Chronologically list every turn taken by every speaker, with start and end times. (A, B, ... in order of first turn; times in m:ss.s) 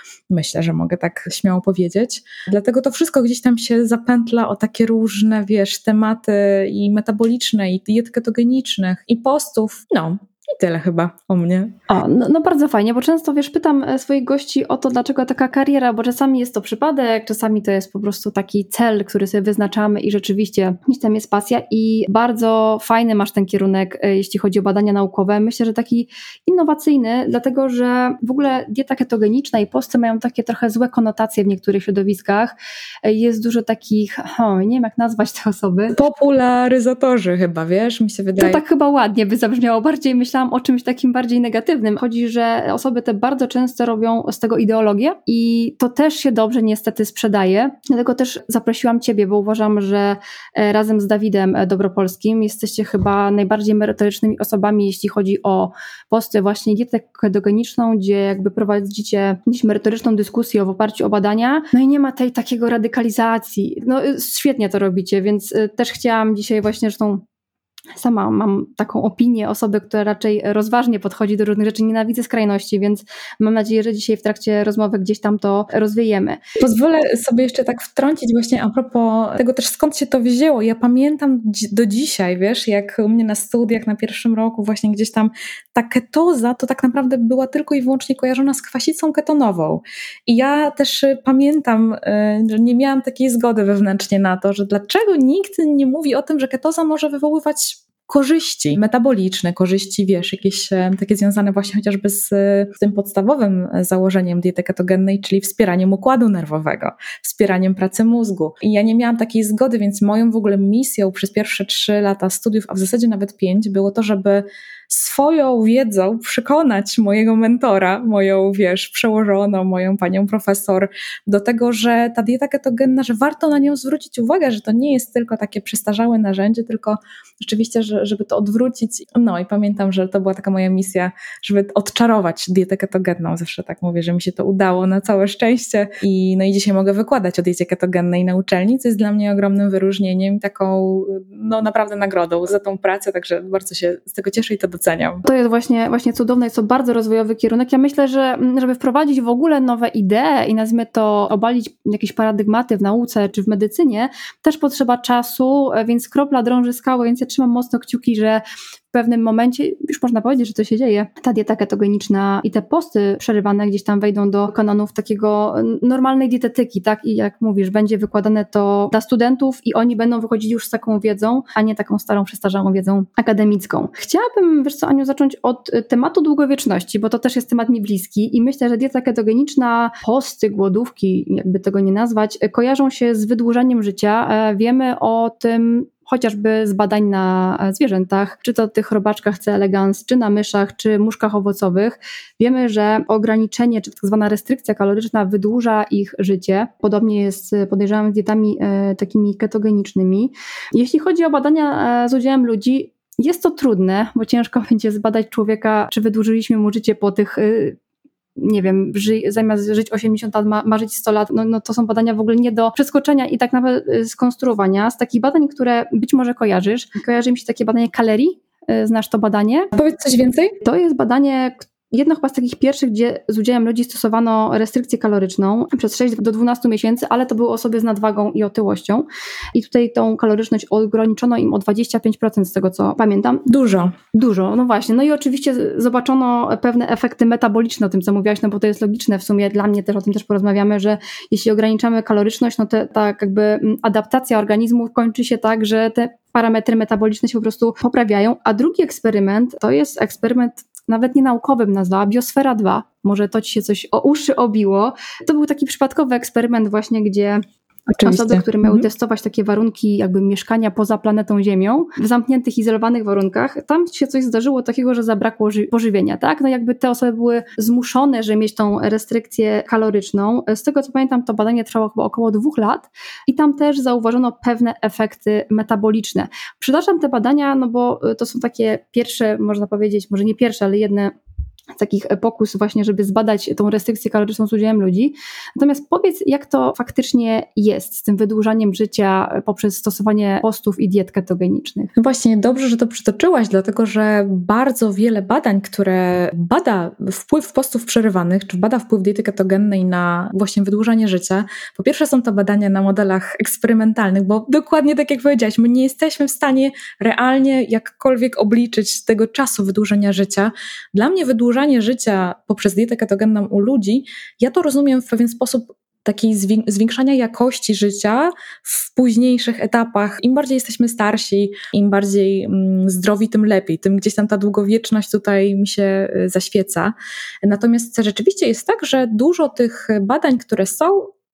0:00.3-0:11.7 A
0:11.9-0:36.0 B
0:35.9-0:38.6 A
0:38.4-1:07.2 B
1:08.0-1:16.4 B
1:16.6-2:25.2 A
2:25.2-3:27.8 B
3:28.4-3:39.7 B
3:39.7-3:40.6 A
3:40.6-3:53.5 B
3:53.5-3:54.0 A
3:54.1-4:41.1 B
4:18.0-4:18.9 A
4:41.7-4:51.9 B
4:52.0-5:31.1 A